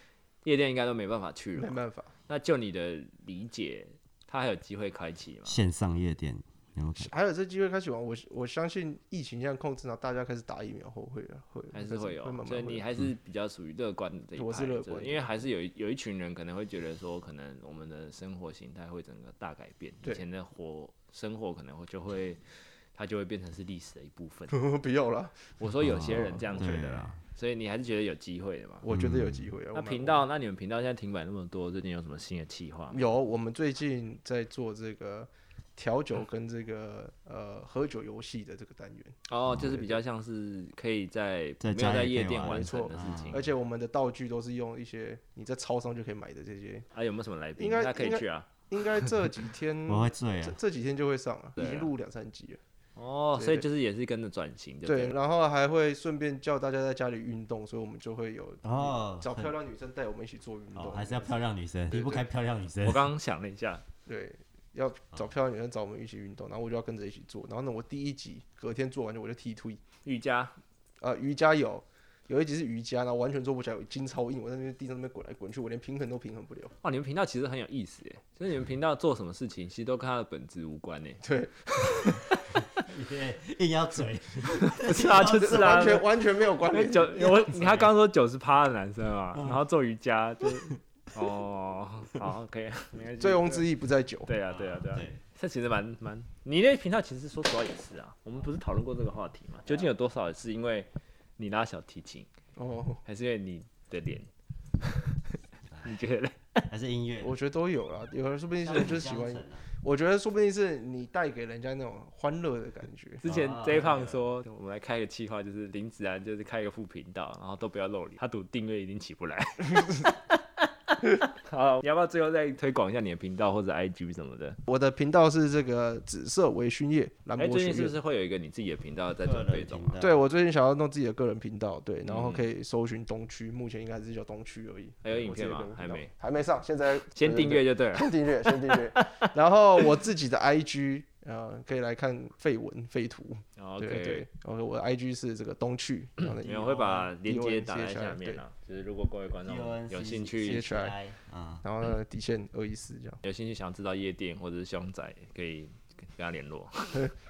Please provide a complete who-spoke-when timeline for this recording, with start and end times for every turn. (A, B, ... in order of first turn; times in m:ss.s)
0:00.4-0:05.6 A
0:01.6-0:02.1 B
0:05.4-0:07.1 C
0:07.0-0:12.8 B
0:11.7-0:22.4 A
0:14.4-0:15.3 B
0:22.9-0:24.6 A
0:24.5-0:25.6 B
0:25.6-0:28.9 A
0:25.8-0:27.2 C
0:28.8-0:30.2 B
0:28.9-0:29.5 C
0:29.7-0:33.0 A
0:32.9-0:40.0 B
0:39.3-0:43.4 A
0:41.6-0:43.5 C
0:42.4-0:46.9 B
0:46.9-0:49.1 A
0:47.6-0:52.6 B
0:49.9-0:50.6 C
0:51.6-0:51.9 A
0:53.0-0:55.1 A
0:53.4-0:53.6 B
0:54.8-1:01.4 B
0:58.6-0:59.5 C
1:00.7-1:03.1 C
1:01.9-1:02.2 B
1:02.8-1:03.8 A
1:04.1-1:09.8 B
1:10.0-1:10.5 A
1:11.0-1:16.7 B
1:16.8-1:21.2 A
1:21.2-1:22.2 B
1:21.7-1:22.5 A
1:22.7-1:26.0 C
1:24.6-1:33.6 A
1:25.0-1:27.5 B
1:33.2-1:34.3 B
1:34.3-1:42.3 A
1:34.5-1:35.2 C
1:42.6-1:43.0 B
1:43.1-1:44.3 A
1:44.8-1:46.7 A
1:46.7-1:47.4 C
1:47.2-1:53.2 B
1:48.6-1:49.6 C
1:53.2-2:04.6 A
1:53.2-1:54.2 C
2:04.7-2:07.9 B
2:07.4-2:10.0 A
2:09.2-2:10.2 C
2:10.0-2:28.4 B
2:12.1-2:12.4 A
2:15.0-2:16.1 A
2:17.1-2:18.1 A
2:18.7-2:19.3 A
2:23.6-2:24.2 A
2:26.4-2:30.6 A
2:29.4-2:31.6 C
2:30.4-2:30.9 B
2:31.6-2:33.2 B
2:33.2-2:37.1 A